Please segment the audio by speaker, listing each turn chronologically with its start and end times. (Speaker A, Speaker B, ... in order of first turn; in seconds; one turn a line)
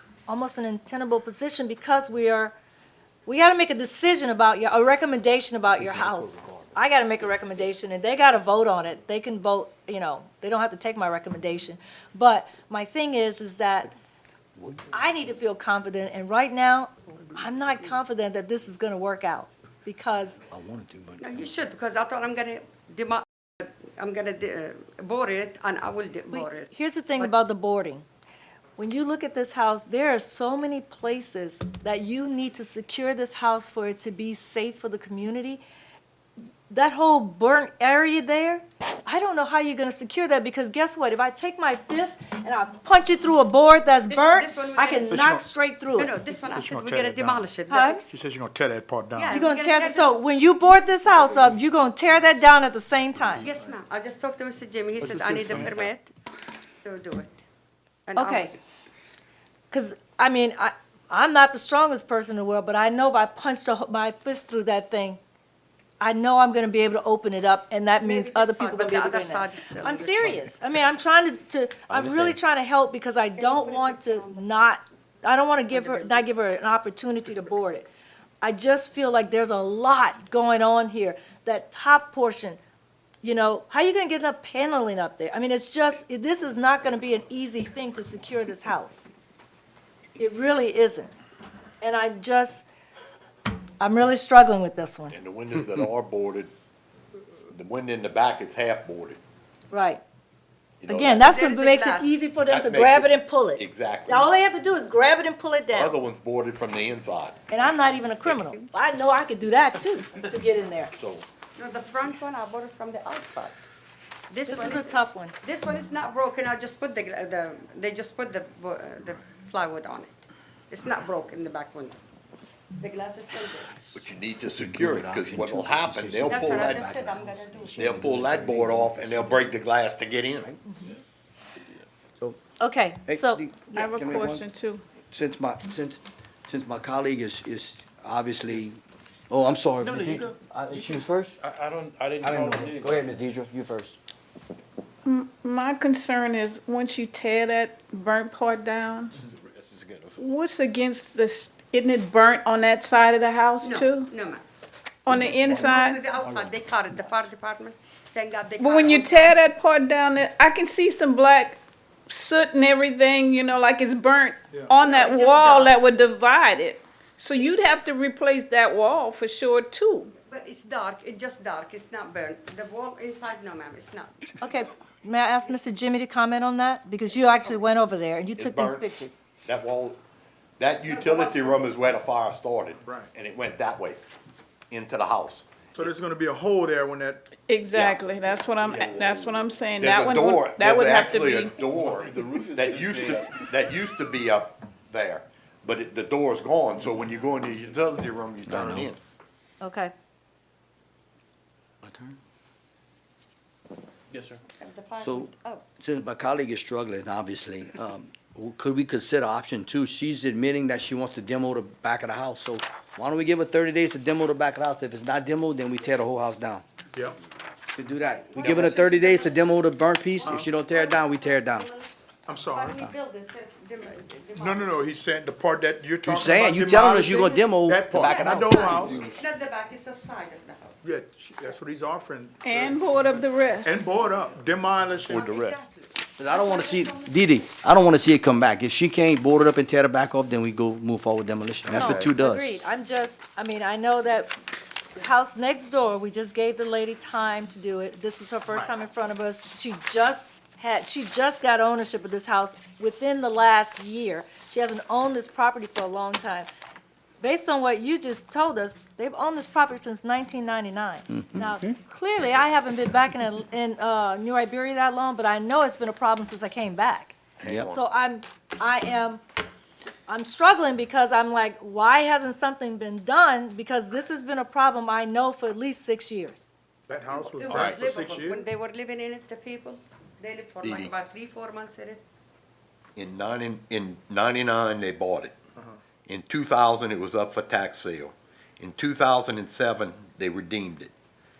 Speaker A: 0.3-2.5
Speaker A: 3.2-13.9
Speaker B: 5.7-6.7
Speaker B: 14.6-14.9
Speaker A: 14.9-20.4
Speaker B: 20.5-21.4
Speaker C: 21.2-27.3
Speaker A: 26.3-28.0
Speaker A: 28.8-35.6
Speaker A: 36.7-46.1
Speaker C: 44.1-45.2
Speaker D: 45.1-45.5
Speaker C: 46.0-48.1
Speaker D: 46.4-47.5
Speaker A: 47.7-48.0
Speaker D: 48.1-49.4
Speaker C: 49.2-50.1
Speaker A: 49.3-53.5
Speaker C: 53.4-56.1
Speaker D: 55.0-55.9
Speaker C: 56.8-57.4
Speaker C: 58.1-58.5
Speaker A: 58.1-58.5
Speaker A: 59.7-65.2
Speaker A: 66.0-77.9
Speaker C: 68.0-70.3
Speaker C: 73.4-74.7
Speaker C: 75.7-76.2
Speaker A: 78.4-82.6
Speaker A: 83.2-89.1
Speaker A: 90.2-91.1
Speaker A: 91.8-92.6
Speaker A: 93.8-95.1
Speaker E: 95.1-96.5
Speaker E: 97.5-99.2
Speaker A: 99.7-100.0
Speaker E: 100.8-101.4
Speaker A: 100.9-106.0
Speaker C: 101.3-102.3
Speaker E: 102.4-104.3
Speaker E: 105.7-107.5
Speaker A: 107.5-110.9
Speaker E: 108.2-108.6
Speaker E: 110.9-111.2
Speaker C: 111.6-113.6
Speaker C: 114.3-120.2
Speaker A: 114.5-115.3
Speaker C: 120.7-121.9
Speaker C: 122.8-124.0
Speaker E: 123.9-127.0
Speaker B: 124.5-129.4
Speaker C: 126.2-127.8
Speaker E: 127.7-130.5
Speaker A: 132.6-133.4
Speaker B: 133.1-134.4
Speaker F: 133.7-134.8
Speaker B: 135.1-141.4
Speaker G: 139.8-143.1
Speaker B: 142.2-144.0
Speaker F: 145.0-149.1
Speaker E: 149.5-150.2
Speaker F: 150.2-154.1
Speaker C: 153.6-154.4
Speaker F: 155.1-156.0
Speaker C: 155.4-159.3
Speaker F: 158.6-170.1
Speaker C: 164.8-165.7
Speaker C: 170.2-174.6
Speaker A: 174.4-179.2
Speaker E: 178.4-178.9
Speaker E: 179.4-180.0
Speaker E: 180.6-184.0
Speaker C: 180.9-181.6
Speaker D: 182.8-183.1
Speaker E: 184.7-185.5
Speaker D: 185.7-187.2
Speaker F: 187.5-191.6
Speaker E: 187.7-188.1
Speaker E: 188.6-199.0
Speaker G: 191.8-193.3
Speaker B: 198.5-198.9
Speaker A: 199.6-199.9
Speaker B: 201.8-202.1
Speaker G: 204.1-204.4
Speaker C: 204.6-205.6
Speaker B: 205.0-216.6
Speaker B: 217.7-221.7
Speaker C: 218.1-219.5
Speaker C: 220.2-221.9
Speaker D: 220.2-220.5
Speaker D: 222.3-222.8
Speaker C: 222.4-224.8
Speaker D: 224.3-229.0
Speaker B: 226.0-229.1
Speaker C: 227.9-230.8
Speaker D: 230.8-232.8
Speaker F: 232.4-233.8
Speaker D: 233.6-235.6
Speaker C: 235.1-237.5
Speaker E: 235.1-235.5
Speaker B: 236.2-242.6
Speaker A: 241.7-244.3
Speaker D: 241.7-242.0
Speaker A: 244.9-256.5
Speaker A: 257.2-267.1
Speaker B: 261.3-261.6
Speaker E: 267.4-267.8
Speaker B: 267.4-267.7
Speaker A: 267.7-269.2
Speaker A: 270.1-276.5
Speaker D: 276.9-278.4
Speaker C: 277.1-282.0
Speaker E: 277.4-278.3
Speaker E: 280.6-281.0
Speaker E: 282.9-285.4
Speaker E: 286.1-290.9